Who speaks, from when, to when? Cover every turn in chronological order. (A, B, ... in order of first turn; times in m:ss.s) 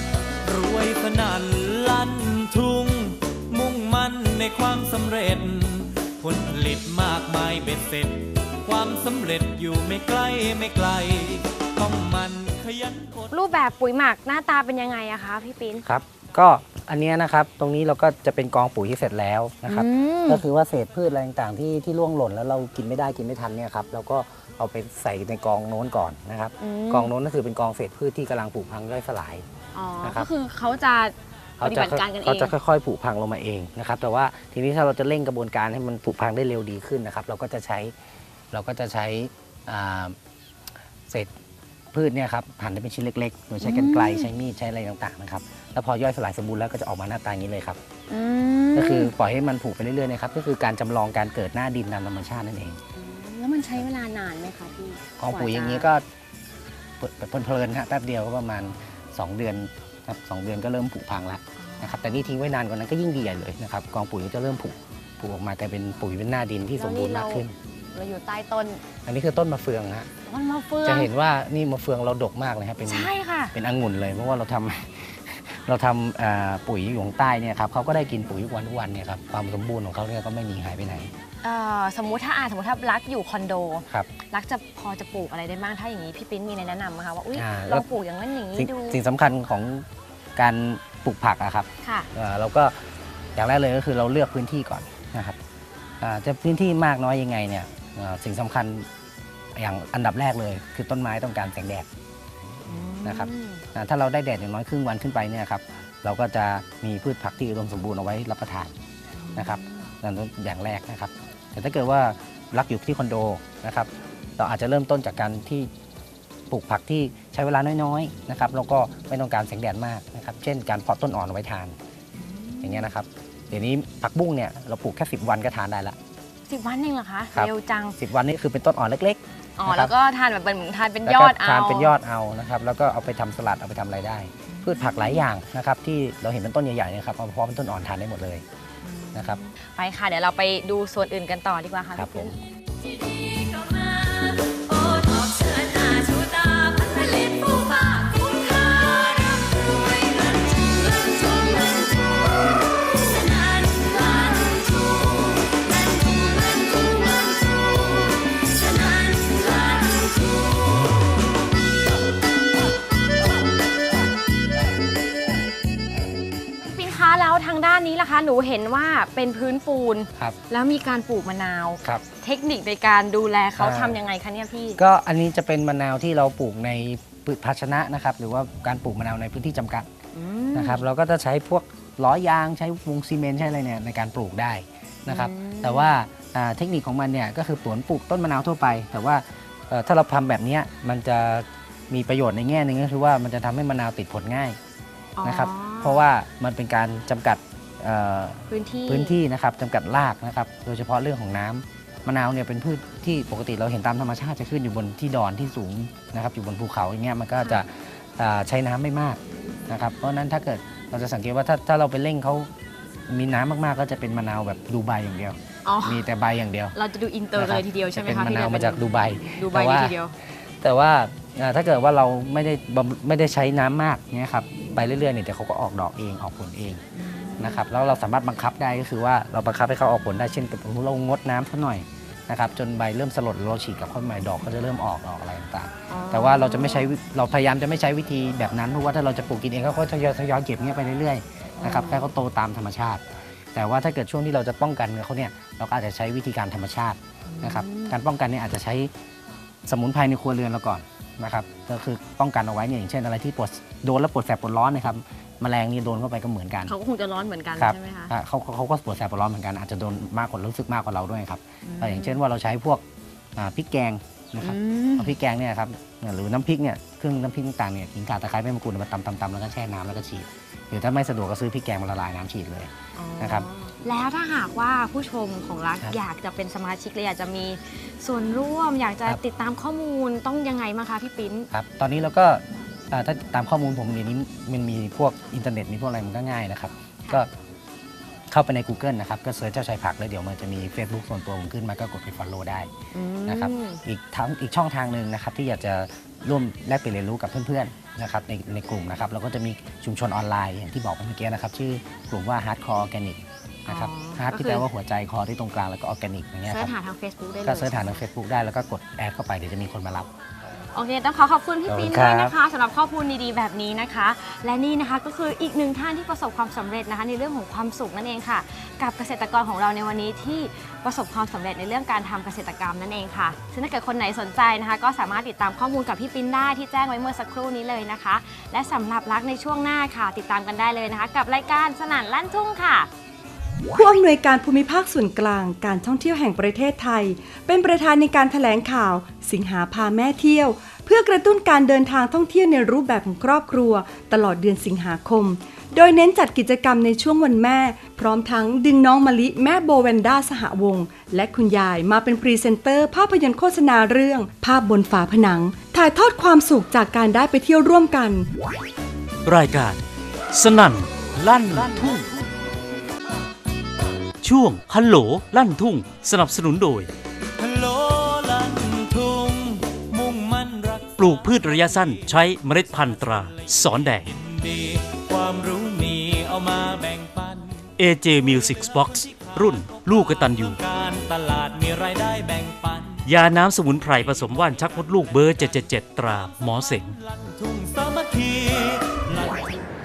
0:00.4-0:13.3 A
0:13.3-0:15.9 B
0:15.9-0:29.4 C
0:19.7-0:20.4 B
0:26.6-0:27.1 B
0:29.7-0:32.5 B
0:30.0-0:30.3 C
0:31.6-0:37.9 C
0:38.5-0:40.2 C
0:41.9-0:47.8 C
0:43.6-0:44.3 B
0:48.1-0:49.1 B
0:48.7-0:52.8 C
0:53.0-0:55.9 B
0:55.2-0:56.0 C
0:57.0-1:07.6 C
1:01.6-1:02.3 B
1:06.8-1:08.8 B
1:09.0-1:10.1 C
1:10.2-1:11.1 B
1:10.8-1:21.1 C
1:12.9-1:13.5 B
1:21.4-1:29.0 B
1:27.3-1:27.8 C
1:28.6-1:29.8 C
1:30.4-1:32.8 C
1:31.8-1:32.1 B
1:33.4-1:35.4 C
1:36.0-1:38.9 C
1:39.5-1:41.9 C
1:42.7-1:43.6 B
1:43.0-1:48.7 C
1:49.2-1:49.9 B
1:49.4-1:55.7 C
1:56.5-2:01.8 C
2:02.2-2:02.9 B
2:02.6-2:06.0 C
2:06.5-2:08.0 B
2:07.3-2:09.9 C
2:09.6-2:11.9 B
2:11.0-2:18.4 C
2:14.5-2:15.2 B
2:18.8-2:22.4 B
2:19.1-2:19.4 C
2:22.0-2:22.3 C
2:23.2-2:31.1 B
2:33.8-2:34.1 B
2:46.6-2:54.8 B
2:53.6-2:54.0 C
2:54.8-2:59.9 C
3:00.1-3:00.8 B
3:00.5-3:14.6 C
3:05.1-3:06.0 B
3:15.2-3:16.1 B
3:15.2-3:32.5 C
3:18.5-3:19.2 B
3:33.1-3:36.8 C
3:35.6-3:36.0 B
3:36.8-3:40.2 B
3:37.4-3:40.0 C
3:40.6-3:46.8 C
3:47.0-3:47.6 B
3:47.4-4:08.9 C
3:55.9-3:56.9 B
4:01.6-4:02.1 B
4:07.3-4:08.0 B
4:09.7-4:16.7 C
4:16.7-4:18.2 B
4:17.6-4:22.8 C
4:21.6-4:22.2 B
4:23.4-4:33.5 C
4:24.4-4:25.1 B
4:33.0-4:41.5 B
4:41.5-4:47.3 C
4:48.3-4:52.7 C
4:52.9-4:53.8 B
4:53.3-5:06.7 C
5:03.7-5:04.7 B
5:06.5-5:08.0 B
5:07.4-5:10.1 C
5:10.7-5:32.9 B
5:11.7-5:12.4 C
5:33.7-5:58.3 D
5:59.2-5:59.8 E
6:00.3-6:02.1 E
6:01.5-6:02.3 A
6:04.2-6:06.9 E
6:07.4-6:23.1 A
6:11.0-6:14.1 E
6:17.8-6:20.6 E
6:23.1-6:27.0 E
6:24.1-6:29.7 A